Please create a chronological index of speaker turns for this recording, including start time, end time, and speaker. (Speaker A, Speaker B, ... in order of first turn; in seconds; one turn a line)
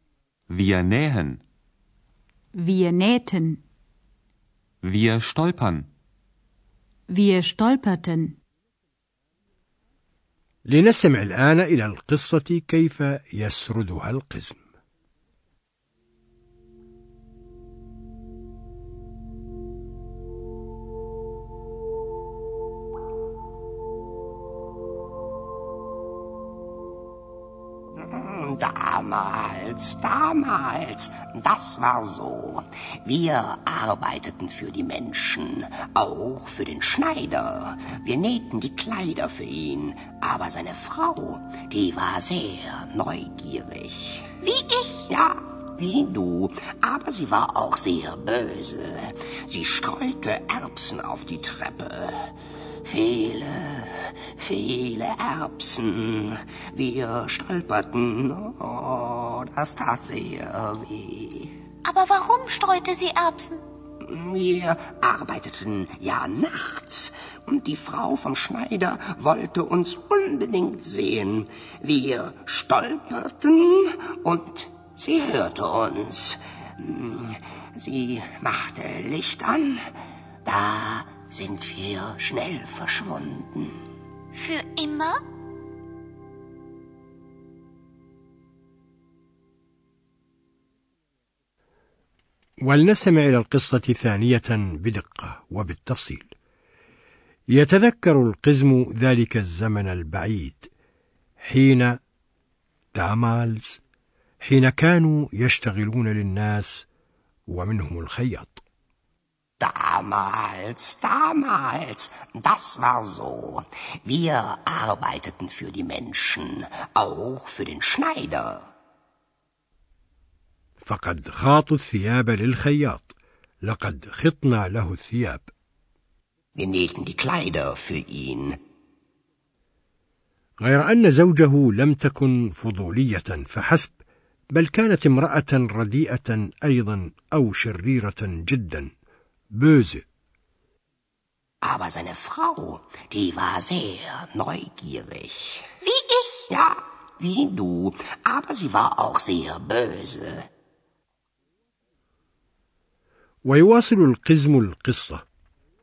Speaker A: 0.5-1.4
Speaker B: 2.5-3.6
Speaker A: 4.8-5.9
Speaker B: 7.1-8.4
Speaker C: 10.7-14.6
Speaker D: 28.1-44.4
Speaker E: 44.5-44.9
Speaker D: 45.1-52.1
Speaker D: 52.9-61.5
Speaker E: 61.9-63.6
Speaker D: 64.0-79.8
Speaker D: 80.5-83.7
Speaker E: 84.8-85.2
Speaker C: 92.6-96.3
Speaker C: 97.5-100.7
Speaker C: 101.4-102.0
Speaker C: 103.0-103.8
Speaker C: 104.4-106.9
Speaker C: 107.5-108.6
Speaker D: 109.6-118.7
Speaker C: 120.8-125.5
Speaker D: 126.6-128.6
Speaker C: 130.6-134.0
Speaker C: 134.5-138.9
Speaker C: 139.6-140.1
Speaker D: 141.6-145.7
Speaker E: 145.8-146.4
Speaker D: 146.5-150.5
Speaker C: 153.4-155.2